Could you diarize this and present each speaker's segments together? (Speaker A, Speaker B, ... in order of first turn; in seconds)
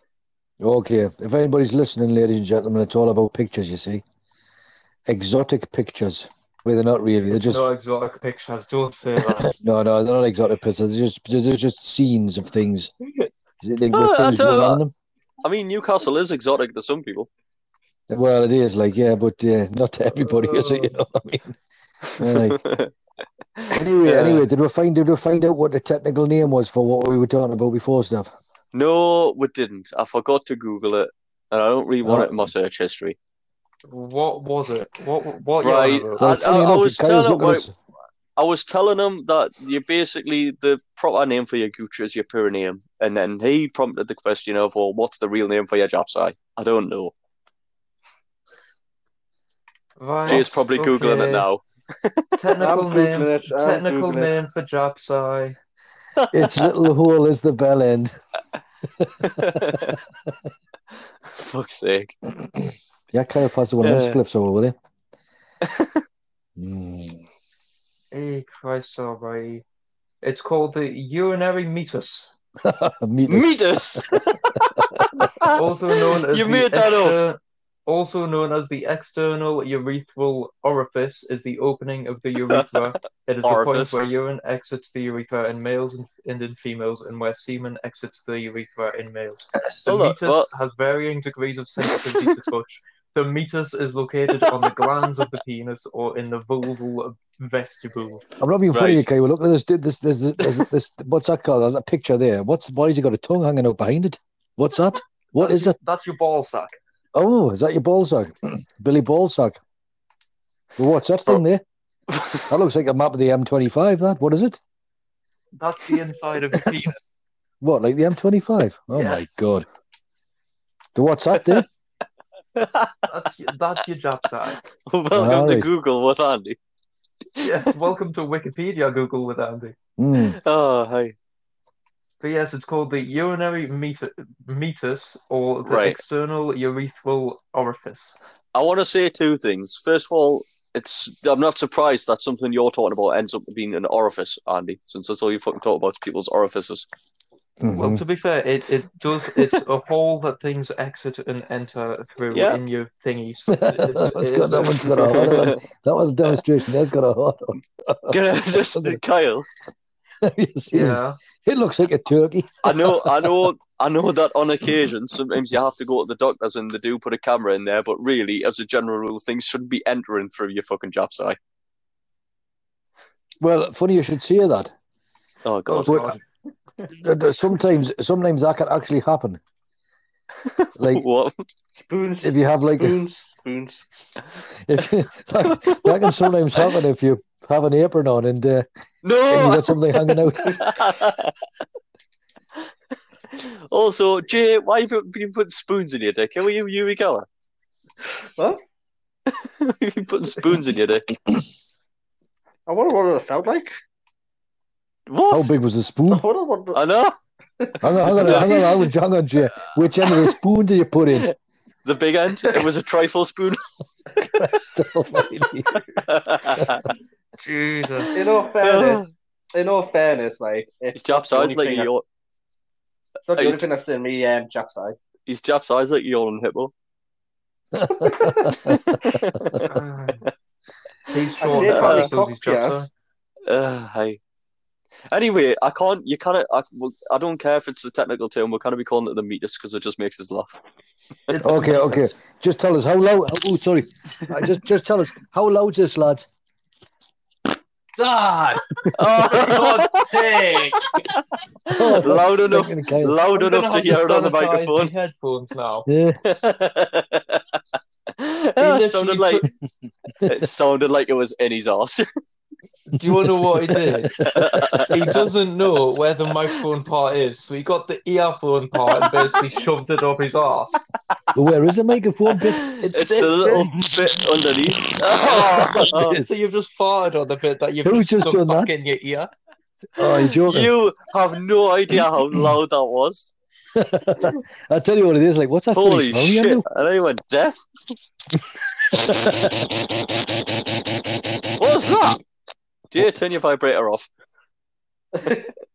Speaker A: 0.6-4.0, 5.1-7.7, 9.3-12.9, 13.6-14.9, 18.1-21.6, 22.2-22.6, 23.7-28.3, 32.0-32.3, 36.2-37.7, 56.3-58.1, 59.0-60.0, 62.4-64.7, 66.6-67.2, 72.6-73.5, 74.6-75.1, 98.4-105.8, 107.1-109.6, 110.8-111.6, 112.5-114.6, 117.6-119.7, 120.9-121.7, 125.1-125.7, 130.0-130.4, 147.6-148.0, 153.5-158.2, 160.2-163.5, 173.4-174.7, 175.9-176.1, 176.9-179.4, 180.8-181.0, 182.2-183.0, 184.7-188.7, 189.3-190.8, 205.3-206.2, 207.8-211.3, 214.2-215.8, 216.5-216.8, 227.7-229.6, 241.4-246.3, 248.0-249.1, 251.7-253.2, 255.9-256.2, 262.9-265.2, 271.3-272.8, 274.7-276.2, 277.8-278.7, 280.0-280.7, 283.7-286.6, 288.9-289.9
Speaker B: 7.3-9.5, 20.2-20.9, 33.9-36.3, 50.0-51.5, 52.4-55.6, 68.1-69.6, 70.2-72.3, 75.5-98.2, 105.4-106.8, 115.5-117.0, 118.9-119.3, 123.1-124.6, 127.4-129.8, 132.2-138.2, 147.8-155.4, 160.7-161.2, 175.7-176.2, 217.4-218.1, 229.6-230.3, 231.1-232.9, 241.3-241.9, 249.3-251.0, 253.2-255.9, 258.6-259.4, 263.0-270.9, 272.7-273.8, 275.3-279.3
Speaker C: 13.9-14.8, 15.4-17.3, 22.2-22.9, 23.6-24.5, 28.7-33.2, 35.6-37.6, 38.4-47.1, 50.3-52.5, 56.2-56.7, 59.2-60.0, 61.2-62.1, 63.8-64.2, 65.6-66.0, 73.2-77.2, 82.5-82.8, 83.4-84.0, 89.8-90.5, 91.9-92.3, 94.3-95.2, 98.7-99.1, 112.1-112.4, 122.5-123.1, 124.7-126.6, 130.1-131.2, 135.6-136.0, 138.5-146.9, 152.3-152.6, 155.0-155.6, 158.1-159.4, 162.6-171.4, 175.4-176.1, 180.4-181.4, 185.5-186.8, 189.0-191.3, 193.3-197.3, 199.3-201.1, 205.1-205.5, 206.7-207.2, 208.0-208.8, 209.9-210.3, 211.8-213.6, 216.0-216.8, 218.6-219.1, 220.9-222.0, 223.3-223.7, 225.3-226.7, 228.4-229.7, 231.6-232.1, 233.5-234.2, 235.1-240.6, 248.9-250.2, 251.7-254.9, 256.2-259.4, 260.2-262.1, 264.2-265.2, 269.0-269.4, 272.3-276.2, 280.4-283.3, 285.7-287.7, 291.6-292.2, 292.9-294.1
Speaker D: 52.6-54.3, 181.8-183.8, 202.7-203.7, 206.1-206.8, 208.0-208.3, 218.1-221.9, 223.2-225.0, 227.9-228.6, 231.4-232.9